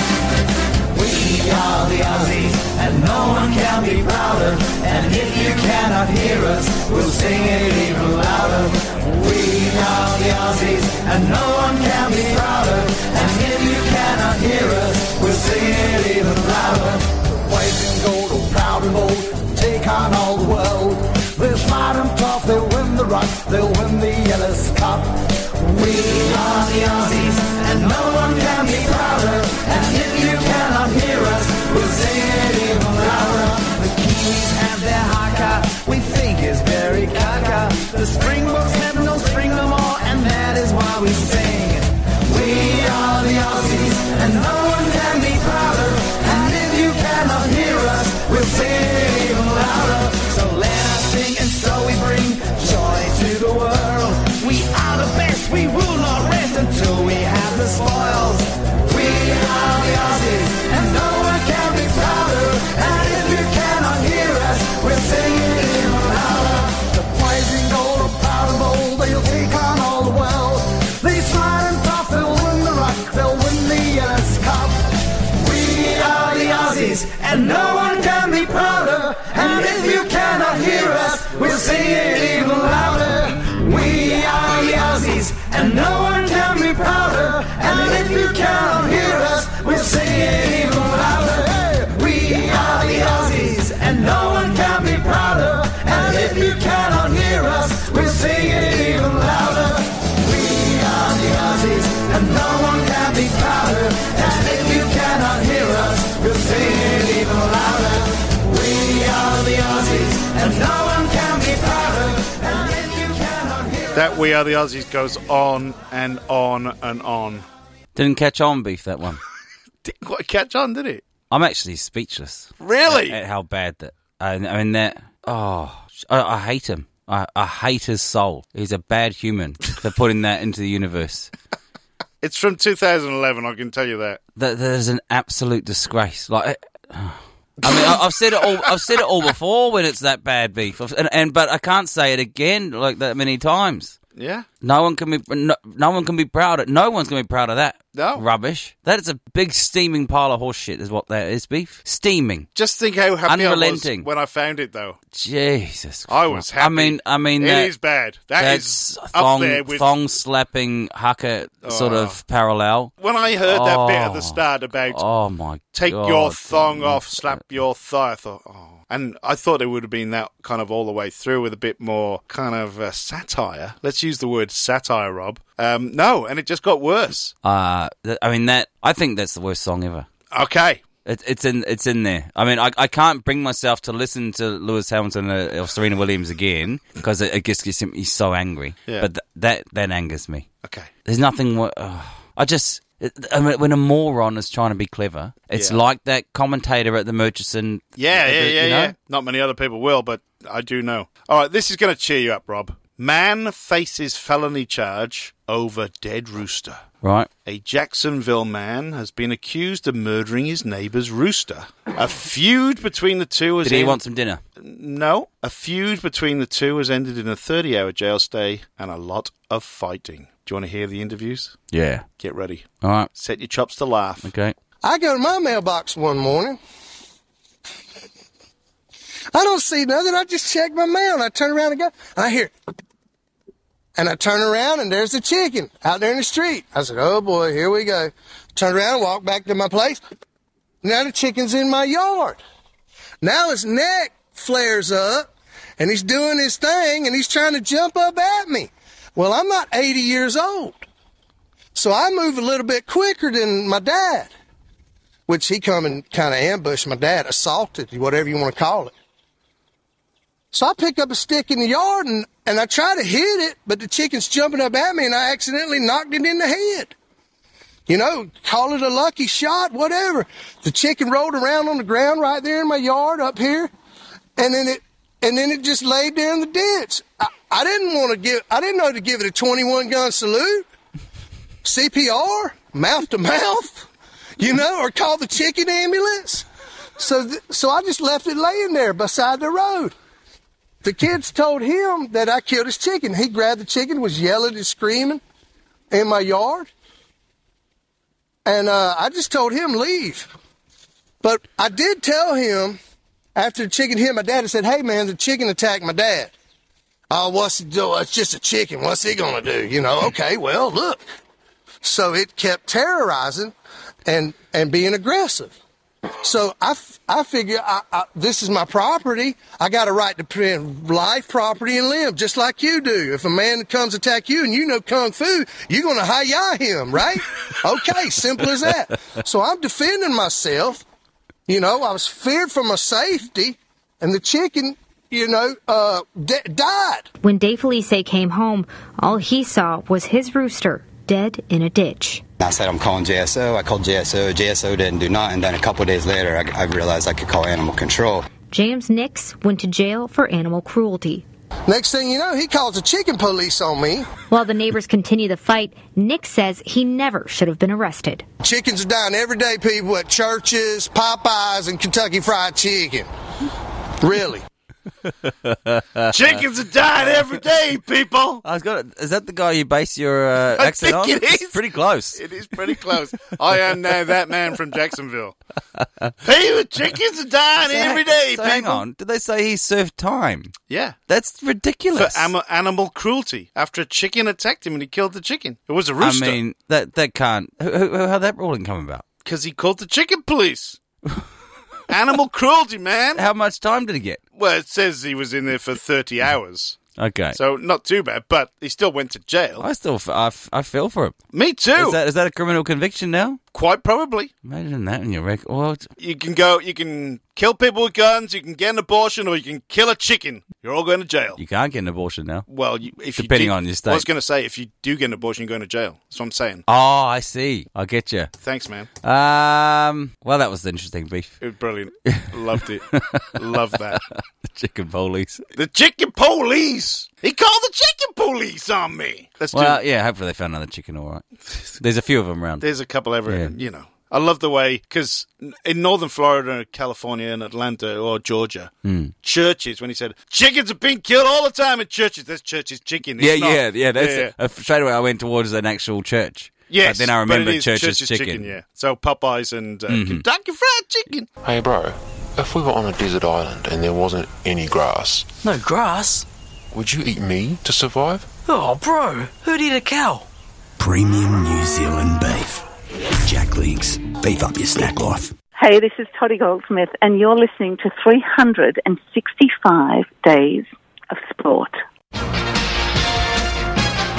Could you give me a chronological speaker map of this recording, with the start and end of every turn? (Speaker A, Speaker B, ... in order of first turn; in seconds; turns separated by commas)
Speaker A: 0.9-114.0, Speaker B: 113.9-117.5, Speaker C: 117.9-119.2, Speaker B: 119.8-121.0, Speaker C: 121.3-131.3, Speaker B: 122.6-123.2, Speaker B: 132.2-134.2, Speaker C: 134.4-144.0, Speaker B: 144.2-144.5, Speaker C: 144.6-152.5, Speaker B: 147.9-148.2, Speaker B: 152.5-155.0, Speaker C: 153.2-154.1, Speaker C: 155.1-157.7, Speaker B: 156.1-159.9, Speaker C: 158.4-162.9, Speaker B: 161.6-162.2, Speaker B: 163.0-165.0, Speaker C: 163.4-164.4, Speaker C: 164.9-167.4, Speaker B: 165.7-177.3, Speaker C: 177.4-180.1, Speaker B: 180.3-180.8, Speaker C: 181.0-190.5, Speaker B: 190.6-190.9, Speaker C: 191.1-198.9, Speaker B: 198.0-206.8, Speaker C: 207.0-207.3, Speaker B: 207.4-214.0, Speaker C: 213.6-214.4, Speaker B: 214.6-221.6, Speaker C: 221.7-222.1, Speaker B: 222.2-224.3, Speaker C: 222.8-223.1, Speaker C: 224.2-224.5, Speaker D: 224.8-226.6, Speaker D: 229.3-232.5, Speaker D: 234.0-240.0, Speaker D: 240.8-242.4, Speaker D: 243.2-245.3, Speaker D: 245.8-250.8, Speaker D: 251.7-254.3, Speaker D: 255.3-258.9, Speaker D: 260.5-266.9, Speaker D: 267.9-273.7, Speaker D: 274.4-280.6, Speaker D: 281.6-286.4, Speaker D: 287.0-289.9, Speaker D: 290.8-295.2, Speaker D: 295.9-296.7, Speaker D: 298.4-300.3, Speaker D: 301.2-302.8, Speaker D: 303.4-306.3, Speaker D: 307.1-311.0, Speaker D: 311.8-313.5, Speaker D: 314.1-315.5, Speaker D: 316.2-330.8, Speaker D: 331.5-337.1, Speaker E: 337.2-342.2, Speaker F: 342.4-348.3, Speaker E: 348.4-351.2, Speaker D: 351.7-354.1, Speaker E: 354.3-358.2, Speaker D: 358.4-363.1, Speaker D: 364.0-364.4, Speaker C: 365.5-366.1, Speaker B: 366.1-368.4, Speaker C: 368.4-372.2, Speaker B: 370.6-371.6, Speaker B: 372.1-375.4, Speaker B: 376.2-378.8, Speaker C: 377.6-380.5, Speaker B: 380.7-381.0, Speaker C: 381.1-382.3, Speaker B: 381.9-386.4, Speaker C: 386.0-389.0, Speaker B: 389.2-390.8, Speaker B: 391.9-393.2, Speaker C: 393.1-394.2, Speaker B: 394.4-396.8, Speaker C: 397.0-397.4, Speaker B: 397.3-399.7, Speaker C: 399.6-401.2, Speaker B: 401.3-402.0, Speaker C: 401.7-403.4, Speaker B: 403.5-404.3, Speaker C: 404.4-405.9, Speaker B: 406.0-411.4, Speaker C: 411.4-412.4, Speaker B: 412.5-416.6, Speaker C: 413.1-414.1, Speaker C: 416.7-418.3, Speaker B: 418.4-418.9, Speaker C: 419.0-421.3, Speaker B: 421.4-424.0, Speaker C: 422.9-423.3, Speaker C: 424.1-425.4, Speaker B: 425.5-429.8, Speaker C: 429.5-431.2, Speaker C: 431.8-432.6, Speaker B: 432.6-438.7, Speaker C: 438.8-439.1, Speaker B: 439.2-444.3, Speaker C: 443.2-448.5, Speaker B: 446.7-451.3, Speaker C: 449.9-450.2, Speaker G: 451.4-455.3, Speaker H: 455.4-456.2, Speaker G: 456.7-458.3, Speaker H: 458.4-460.3, Speaker I: 460.8-462.6, Speaker I: 463.2-465.3, Speaker J: 465.6-471.8